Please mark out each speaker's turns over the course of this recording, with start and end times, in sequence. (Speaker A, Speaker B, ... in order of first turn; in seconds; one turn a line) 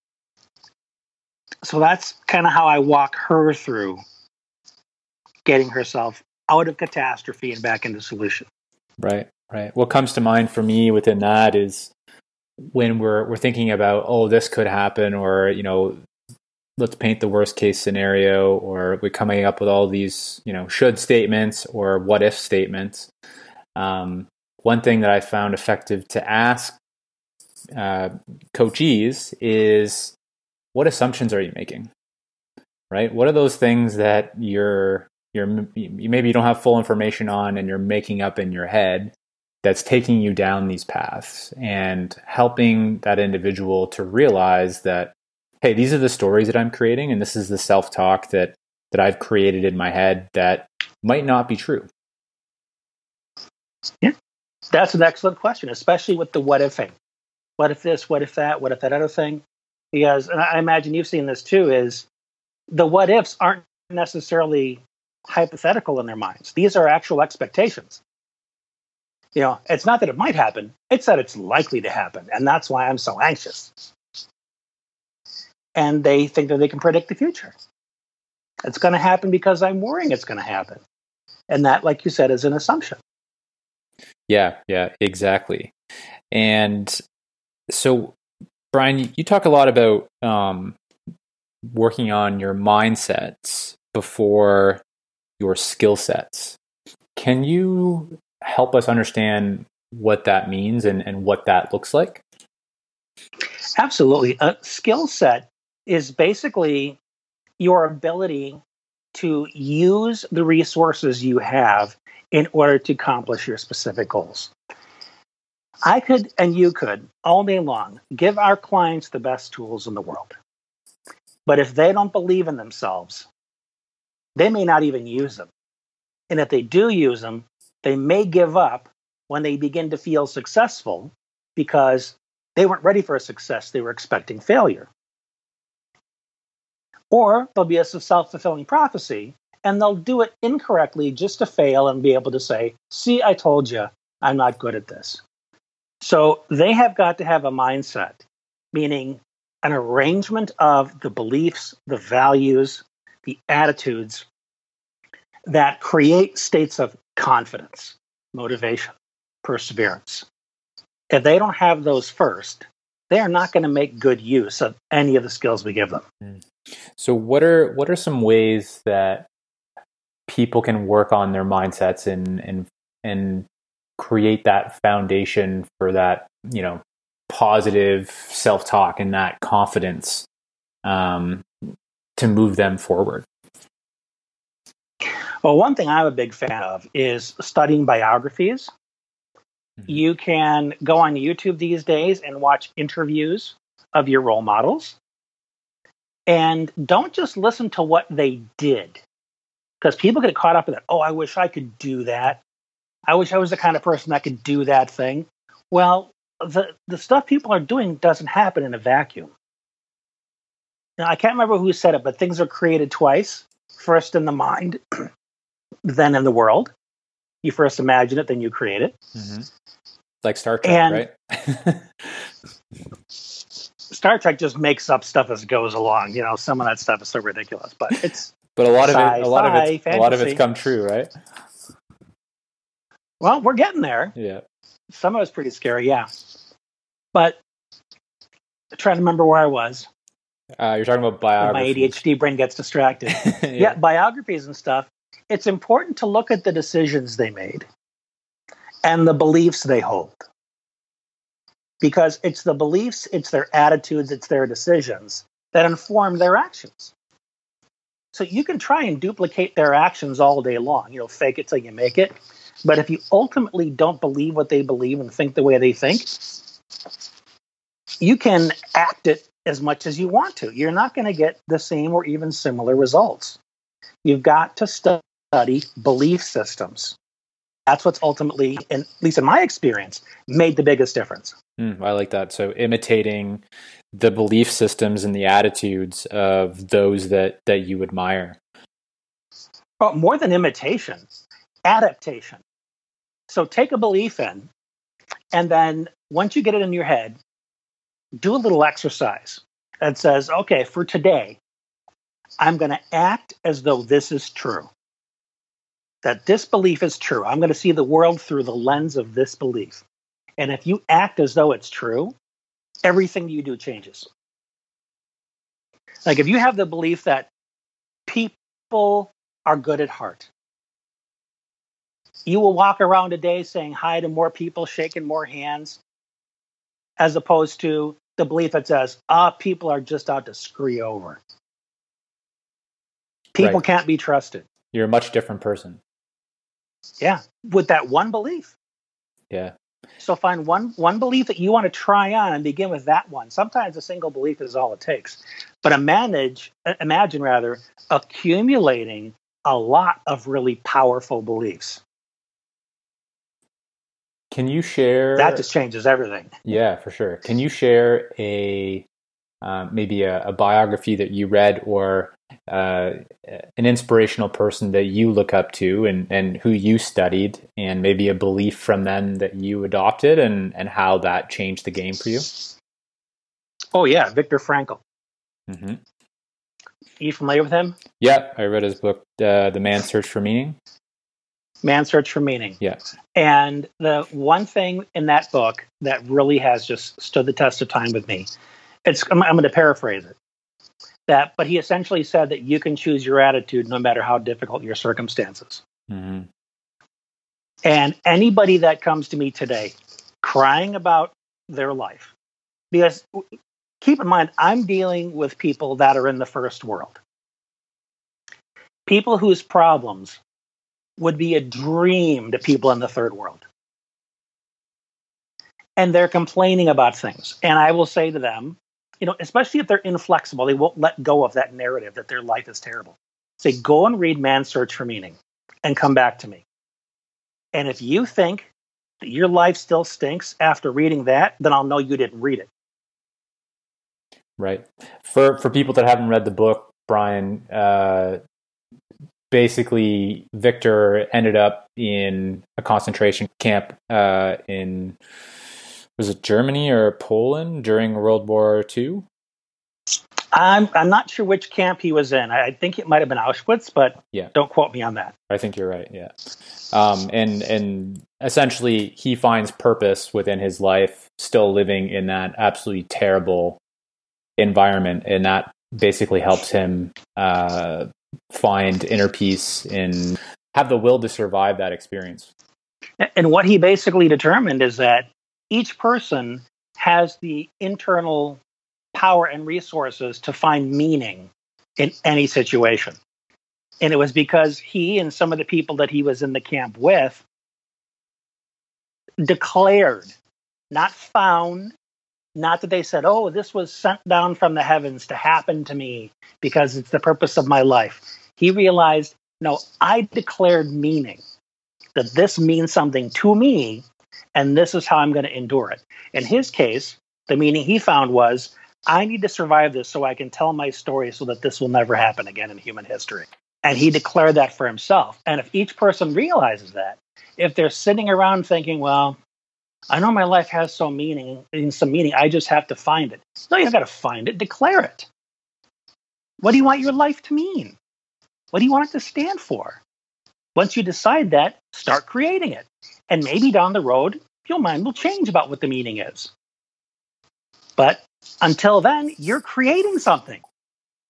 Speaker A: 1.6-4.0
Speaker A: 5.4-8.5
Speaker B: 9.0-11.9
Speaker B: 12.7-16.0
Speaker B: 16.8-23.1
Speaker B: 23.8-26.8
Speaker B: 27.7-30.1
Speaker B: 30.7-31.9
Speaker B: 32.9-51.9
Speaker A: 54.7-56.9
Speaker A: 57.6-62.0
Speaker A: 62.7-68.0
Speaker A: 69.3-73.8
Speaker A: 75.7-77.5
Speaker A: 78.6-80.8
Speaker A: 81.5-83.0
Speaker B: 84.3-85.7
Speaker B: 86.3-87.0
Speaker B: 87.7-88.2
Speaker B: 88.7-90.8
Speaker B: 91.7-94.8
Speaker B: 95.4-96.6
Speaker B: 97.2-102.2
Speaker A: 103.8-107.0
Speaker A: 107.6-108.6
Speaker A: 109.1-114.5
Speaker A: 115.8-120.3
Speaker A: 121.5-123.3
Speaker A: 124.3-125.5
Speaker A: 126.3-134.9
Speaker A: 137.1-145.2
Speaker A: 146.0-154.2
Speaker A: 155.5-158.9
Speaker A: 159.4-160.2
Speaker A: 161.1-166.0
Speaker B: 167.0-169.3
Speaker B: 170.3-173.5
Speaker B: 174.0-180.3
Speaker B: 180.8-183.2
Speaker A: 185.4-188.7
Speaker A: 189.9-195.0
Speaker A: 196.3-199.0
Speaker A: 199.8-202.4
Speaker A: 203.1-209.3
Speaker A: 211.0-215.1
Speaker A: 215.8-216.7
Speaker A: 217.4-218.9
Speaker B: 219.1-219.5
Speaker B: 220.2-222.2
Speaker A: 220.6-221.0
Speaker A: 223.9-230.4
Speaker B: 228.6-231.1
Speaker A: 233.2-234.1
Speaker B: 234.2-234.4
Speaker A: 234.9-236.1
Speaker A: 238.7-239.9
Speaker B: 240.6-242.0
Speaker A: 241.4-247.7
Speaker B: 243.2-243.8
Speaker A: 248.8-250.2
Speaker A: 251.8-256.9
Speaker A: 258.1-266.5
Speaker A: 268.0-273.4
Speaker A: 274.0-276.9
Speaker A: 277.7-281.4
Speaker B: 281.6-288.4
Speaker A: 289.8-291.0
Speaker A: 291.6-292.4
Speaker A: 293.3-294.5
Speaker A: 295.3-297.2
Speaker A: 298.2-301.4
Speaker A: 302.4-304.7
Speaker A: 306.0-309.8
Speaker A: 310.4-312.1
Speaker A: 312.8-314.1
Speaker A: 316.0-317.3
Speaker A: 318.1-320.3
Speaker A: 322.2-325.8
Speaker A: 327.0-331.2
Speaker A: 333.3-334.4
Speaker B: 334.7-335.8
Speaker A: 337.0-338.5
Speaker A: 340.0-351.8
Speaker B: 354.3-355.4
Speaker A: 355.2-356.4
Speaker B: 356.4-358.9
Speaker B: 359.4-372.3
Speaker A: 373.7-374.8
Speaker B: 375.5-375.8
Speaker A: 377.0-377.8
Speaker B: 378.0-380.6
Speaker A: 381.6-382.6
Speaker A: 383.1-388.3
Speaker A: 388.8-390.1
Speaker A: 391.1-395.6
Speaker B: 395.9-396.3
Speaker A: 397.6-402.1
Speaker A: 402.7-403.2
Speaker A: 403.8-407.0
Speaker A: 408.9-410.2
Speaker A: 411.0-413.4
Speaker A: 415.8-426.4
Speaker A: 427.5-428.5
Speaker A: 429.0-432.5
Speaker B: 434.4-438.2
Speaker B: 439.3-445.0
Speaker B: 446.0-449.1
Speaker A: 450.3-455.1
Speaker B: 455.3-456.1
Speaker B: 456.7-463.6
Speaker B: 464.4-472.3
Speaker A: 473.0-478.4
Speaker A: 478.9-483.0
Speaker A: 483.8-487.2
Speaker A: 489.2-490.1
Speaker A: 490.7-491.7
Speaker A: 492.3-501.2
Speaker A: 501.9-503.8
Speaker A: 504.3-519.2
Speaker A: 519.9-525.1
Speaker A: 526.4-527.8
Speaker A: 528.5-529.8
Speaker A: 530.5-536.3
Speaker A: 537.8-540.4